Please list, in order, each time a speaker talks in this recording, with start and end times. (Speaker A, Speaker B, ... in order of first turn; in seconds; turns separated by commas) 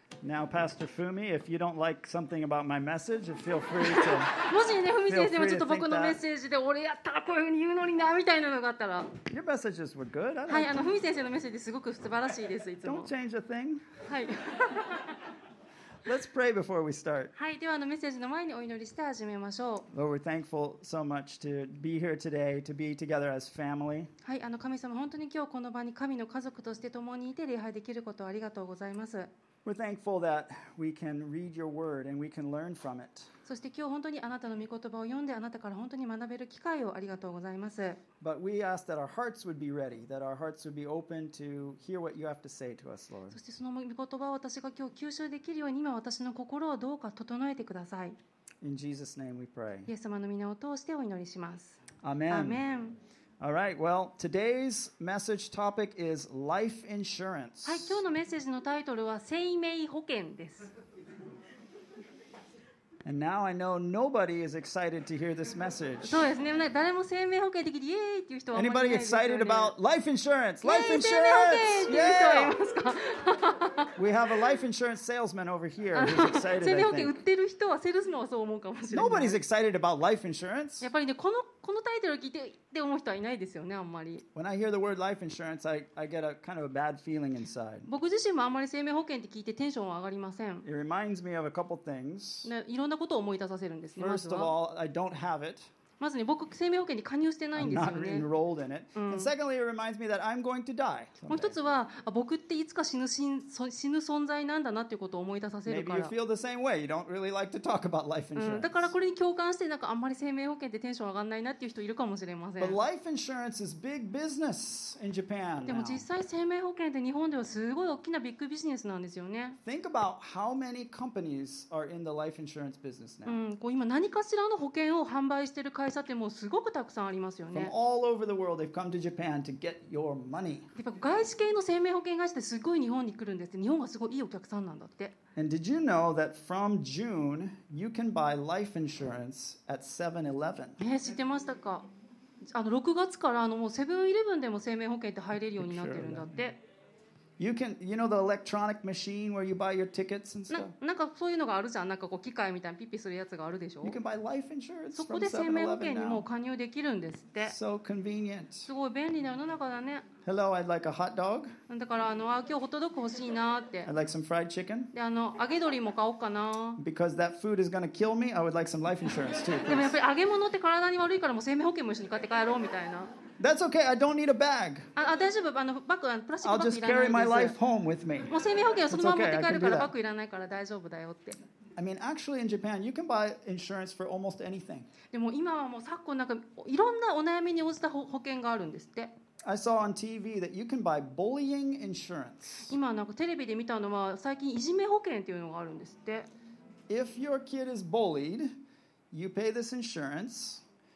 Speaker A: 0.2-4.4, Speaker B: 3.8-9.2, Speaker A: 5.1-6.2, Speaker A: 9.3-10.8, Speaker B: 10.5-13.1, Speaker A: 12.8-13.9, Speaker B: 14.0-15.2, Speaker A: 16.1-17.3, Speaker B: 17.3-19.9, Speaker A: 19.9-24.1, Speaker B: 24.2-29.3, Speaker A: 29.6-33.3, Speaker B: 33.5-38.0, Speaker A: 38.2-43.4, Speaker B: 43.3-48.2, Speaker A: 48.6-49.9, Speaker B: 49.9-53.0, Speaker A: 52.0-52.6, Speaker A: 53.4-58.0, Speaker B: 57.6-60.7, Speaker A: 63.0-66.3, Speaker B: 66.0-69.8, Speaker A: 68.5-72.6, Speaker B: 70.6-73.9, Speaker A: 74.0-77.1, Speaker B: 75.9-79.4, Speaker A: 78.9-80.9, Speaker B: 80.8-84.2, Speaker A: 84.3-87.9, Speaker B: 87.9-90.7, Speaker A: 90.6-92.5, Speaker B: 92.4-94.5, Speaker A: 94.0-95.7, Speaker B: 96.0-98.3, Speaker A: 97.6-101.5, Speaker B: 99.0-99.3, Speaker B: 101.3-106.1, Speaker A: 105.7-108.9, Speaker B: 108.3-112.8, Speaker A: 112.6-116.0, Speaker B: 115.7-119.6, Speaker A: 119.7-123.4, Speaker B: 123.2-127.7, Speaker A: 127.5-130.7, Speaker B: 130.8-135.2, Speaker A: 135.3-140.8, Speaker B: 140.8-141.9, Speaker B: 142.5-146.6, Speaker A: 145.6-146.4, Speaker A: 147.4-150.7, Speaker B: 150.5-154.0, Speaker A: 153.8-156.2, Speaker B: 154.9-157.6, Speaker A: 157.4-158.7, Speaker B: 158.7-160.1, Speaker A: 160.2-161.6, Speaker B: 161.7-163.9, Speaker A: 163.8-164.9, Speaker B: 164.9-166.8, Speaker A: 166.8-169.9, Speaker B: 169.6-173.1, Speaker A: 173.4-174.9, Speaker B: 175.0-177.6, Speaker A: 176.4-178.3, Speaker B: 178.3-181.4, Speaker A: 178.9-179.9, Speaker A: 181.8-184.9, Speaker B: 185.1-189.1, Speaker A: 189.4-192.8, Speaker B: 192.7-196.3, Speaker A: 196.9-198.6, Speaker A: 199.1-200.6